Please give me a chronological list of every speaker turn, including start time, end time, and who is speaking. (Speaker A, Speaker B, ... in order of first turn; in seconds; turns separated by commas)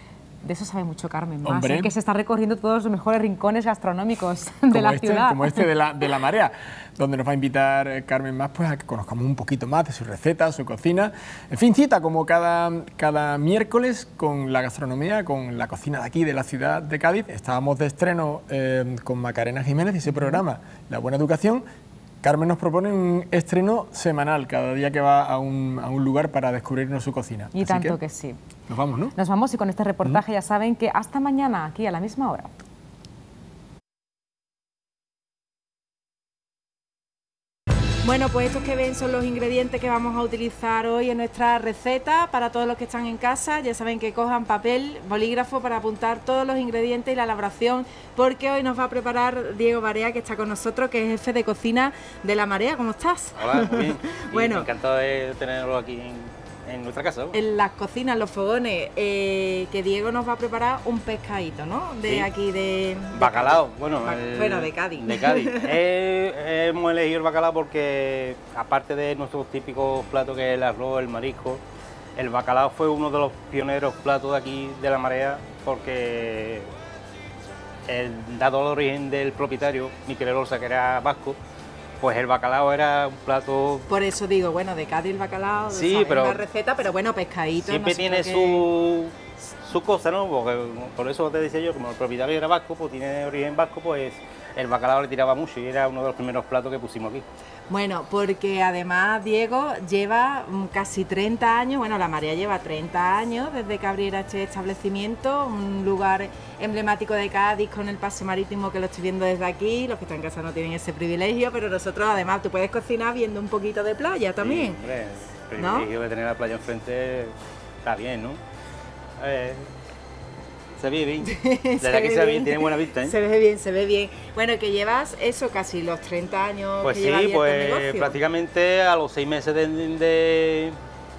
Speaker A: 0.4-5.7, Speaker B: 1.4-1.9, Speaker B: 4.7-21.6, Speaker A: 20.1-20.4, Speaker B: 22.2-28.0, Speaker A: 27.5-28.4, Speaker B: 28.7-29.1, Speaker A: 29.1-32.5, Speaker A: 38.0-54.7, Speaker C: 53.4-57.4, Speaker A: 57.3-65.8, Speaker C: 63.1-71.6, Speaker C: 72.2-76.7, Speaker C: 77.9-81.4, Speaker C: 82.0-83.9, Speaker A: 83.9-88.7, Speaker C: 85.7-86.4, Speaker C: 87.6-97.3, Speaker A: 97.7-114.8, Speaker C: 114.4-118.4, Speaker A: 115.6-115.9, Speaker C: 119.2-119.7, Speaker C: 120.8-123.2, Speaker A: 121.2-128.2, Speaker C: 126.8-130.8